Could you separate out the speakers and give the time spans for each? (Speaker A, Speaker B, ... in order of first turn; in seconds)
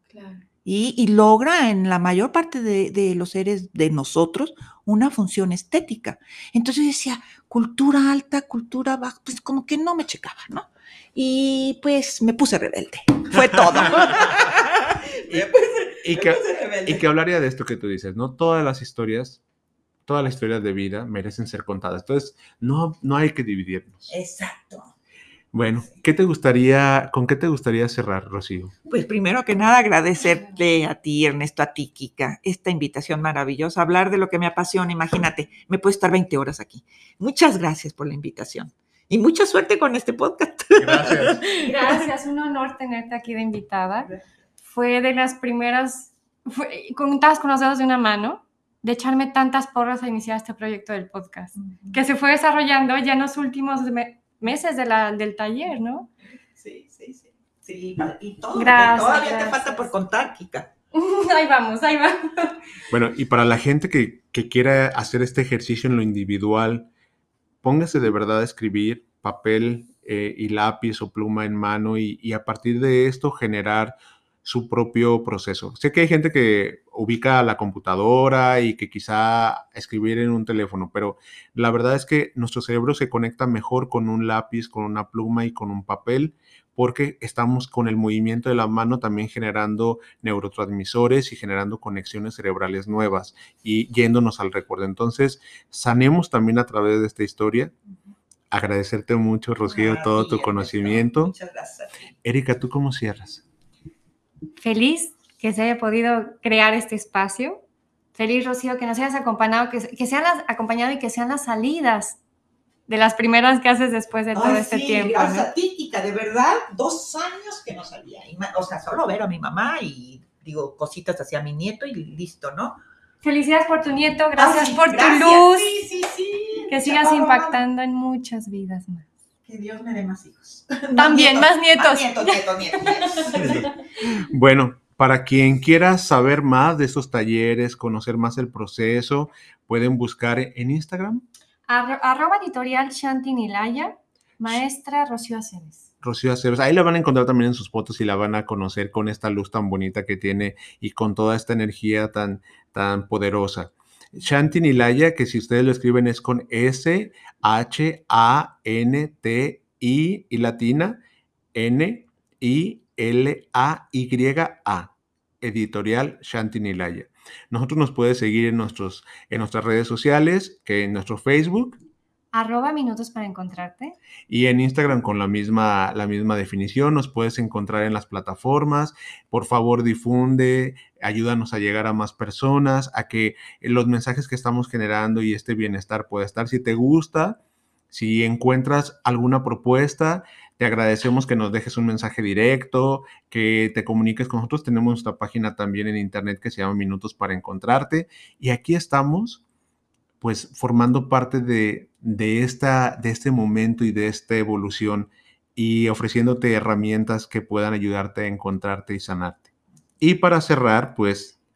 Speaker A: 0.1-0.4, 41.5-44.1, 44.6-56.1, 58.5-59.9, 60.9-62.6, 104.6-107.6, 108.2-112.2, 112.9-115.5, 123.2-125.8, 126.7-129.1, 130.9-133.7, 141.7-145.8, 172.3-173.9
Speaker B: 0.6-17.0, 24.1-24.9, 28.9-42.0, 51.5-52.0, 56.5-60.7, 99.6-102.1, 114.3-122.8, 124.4-127.6, 129.4-133.7
Speaker C: 16.0-19.4, 20.1-24.1, 25.5-28.7, 40.8-41.4, 62.9-66.9, 67.6-97.7, 98.5-101.3, 102.2-103.4, 133.3-141.2, 146.0-161.0, 161.5-171.8, 174.3-187.4, 187.9-199.4, 200.2-209.5, 210.0-211.4